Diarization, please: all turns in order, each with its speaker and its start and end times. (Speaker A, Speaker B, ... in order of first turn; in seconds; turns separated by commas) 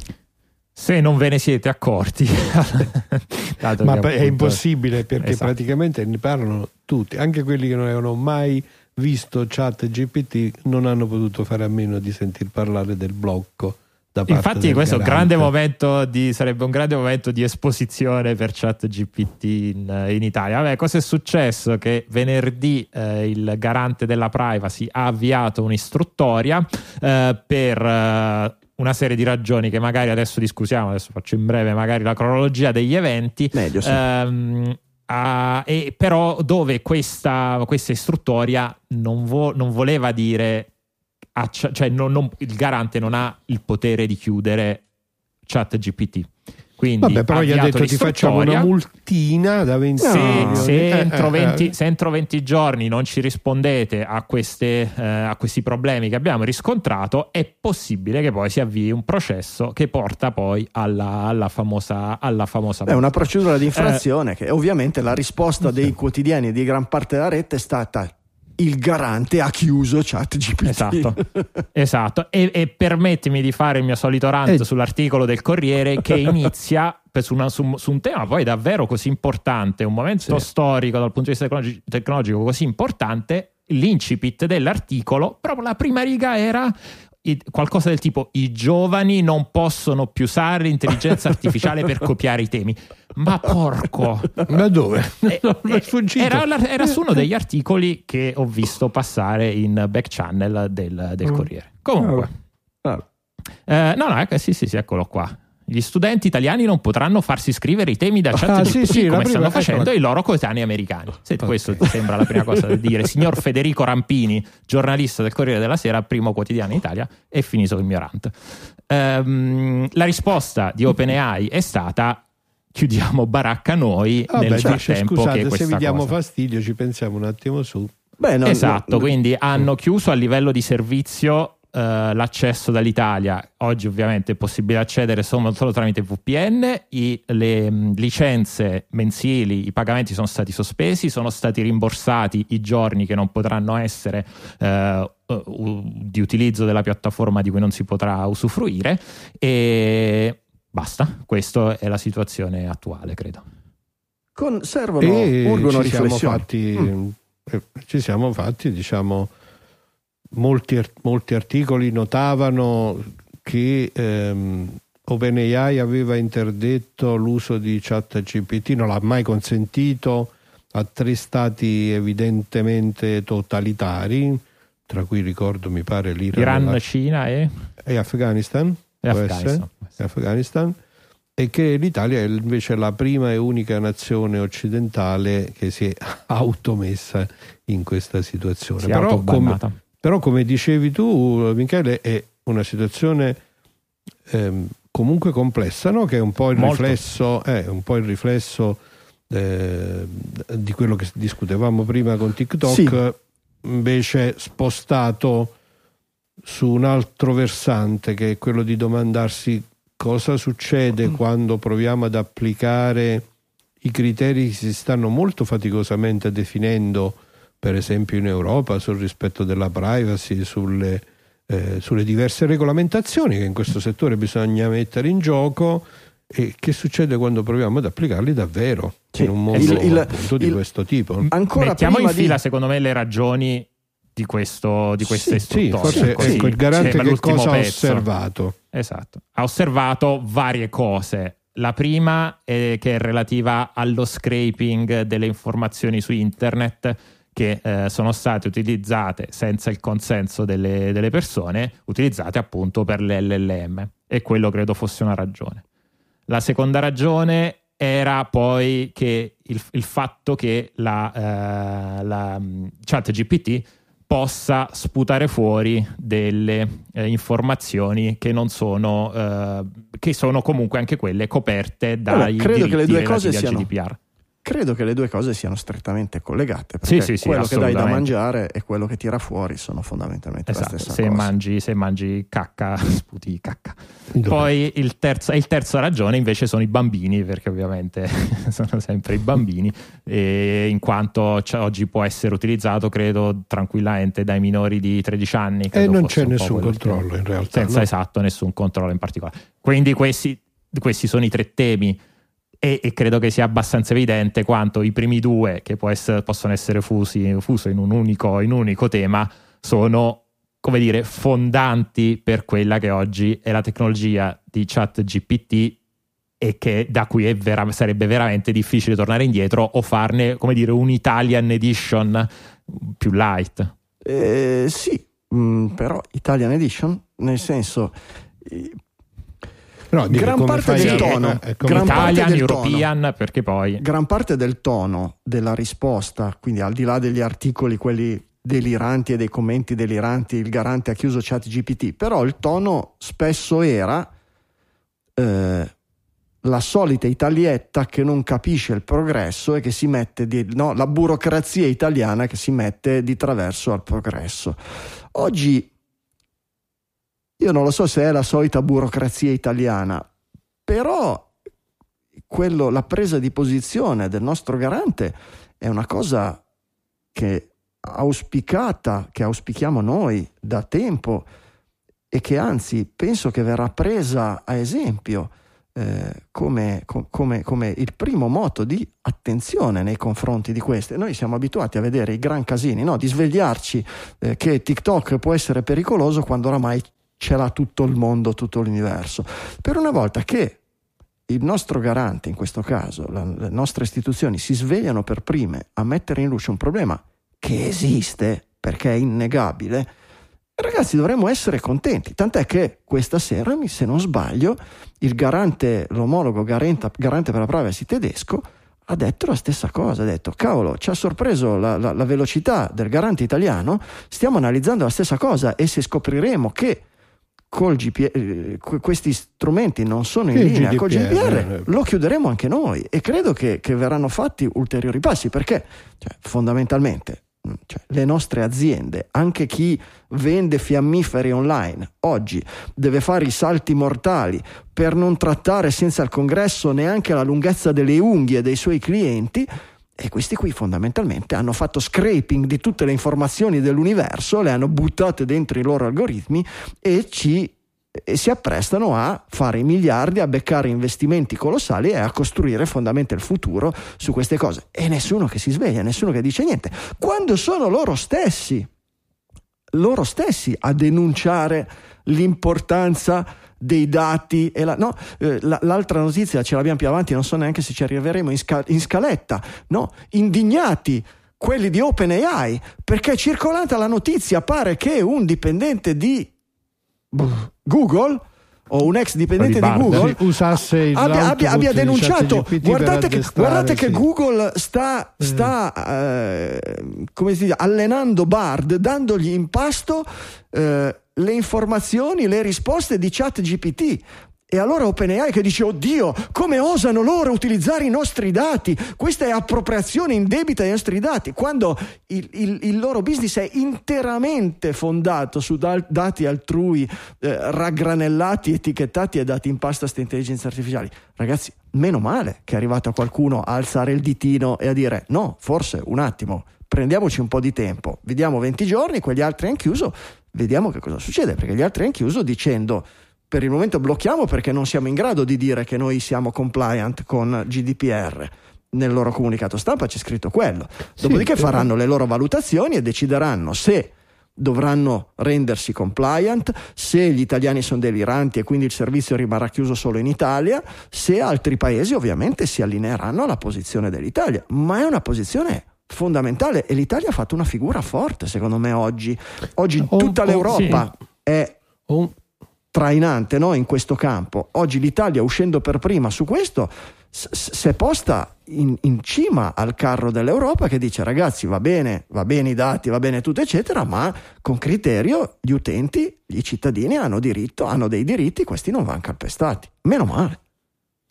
Speaker A: 0.8-4.6, Speaker B: 3.8-15.5, Speaker A: 5.2-5.5, Speaker A: 14.3-40.7, Speaker C: 33.5-34.0, Speaker A: 41.4-44.8, Speaker A: 45.5-48.7, Speaker B: 47.0-51.7, Speaker C: 50.0-50.7, Speaker A: 50.0-64.0, Speaker C: 62.9-71.4, Speaker A: 70.6-71.2, Speaker A: 71.8-94.5, Speaker B: 94.5-97.3, Speaker A: 95.2-102.3, Speaker A: 103.7-118.3, Speaker B: 108.4-109.9, Speaker B: 111.4-111.8, Speaker A: 118.9-126.1, Speaker B: 124.3-127.9, Speaker C: 128.2-129.1, Speaker A: 128.4-153.4, Speaker C: 154.4-156.5, Speaker B: 155.0-159.3, Speaker B: 160.3-176.8, Speaker A: 176.3-177.7, Speaker B: 177.8-180.8, Speaker A: 179.0-179.9, Speaker B: 181.4-193.4, Speaker A: 188.8-189.8, Speaker B: 194.3-205.6, Speaker A: 196.6-197.1, Speaker C: 202.6-203.0, Speaker B: 206.4-213.3, Speaker B: 213.8-231.3, Speaker C: 229.1-230.6, Speaker A: 229.5-229.9, Speaker A: 231.2-238.1, Speaker C: 231.3-232.4, Speaker C: 235.1-236.6, Speaker B: 235.5-238.6, Speaker A: 238.7-255.6, Speaker A: 256.3-274.0, Speaker C: 272.1-273.7, Speaker C: 274.4-281.3, Speaker A: 276.9-278.1, Speaker A: 280.5-302.0, Speaker B: 284.1-284.5, Speaker B: 295.7-297.9, Speaker A: 302.6-315.8, Speaker A: 316.4-323.7, Speaker C: 324.0-328.8, Speaker B: 329.9-332.2, Speaker C: 330.1-332.9, Speaker A: 330.8-333.8, Speaker C: 333.8-344.1, Speaker C: 345.2-345.7, Speaker C: 346.4-354.6, Speaker C: 355.1-355.7, Speaker C: 357.4-360.1, Speaker C: 360.7-361.3, Speaker C: 362.3-366.4, Speaker C: 367.1-371.3, Speaker C: 372.1-390.6, Speaker C: 391.3-399.9, Speaker C: 400.6-416.8, Speaker C: 417.5-458.7, Speaker B: 420.3-421.7, Speaker C: 459.7-476.3, Speaker C: 477.1-551.6, Speaker A: 479.4-480.1, Speaker B: 479.6-484.1, Speaker B: 485.2-485.5, Speaker B: 531.0-531.6, Speaker B: 549.9-550.9, Speaker A: 550.5-550.8, Speaker B: 551.9-552.1, Speaker C: 552.7-570.4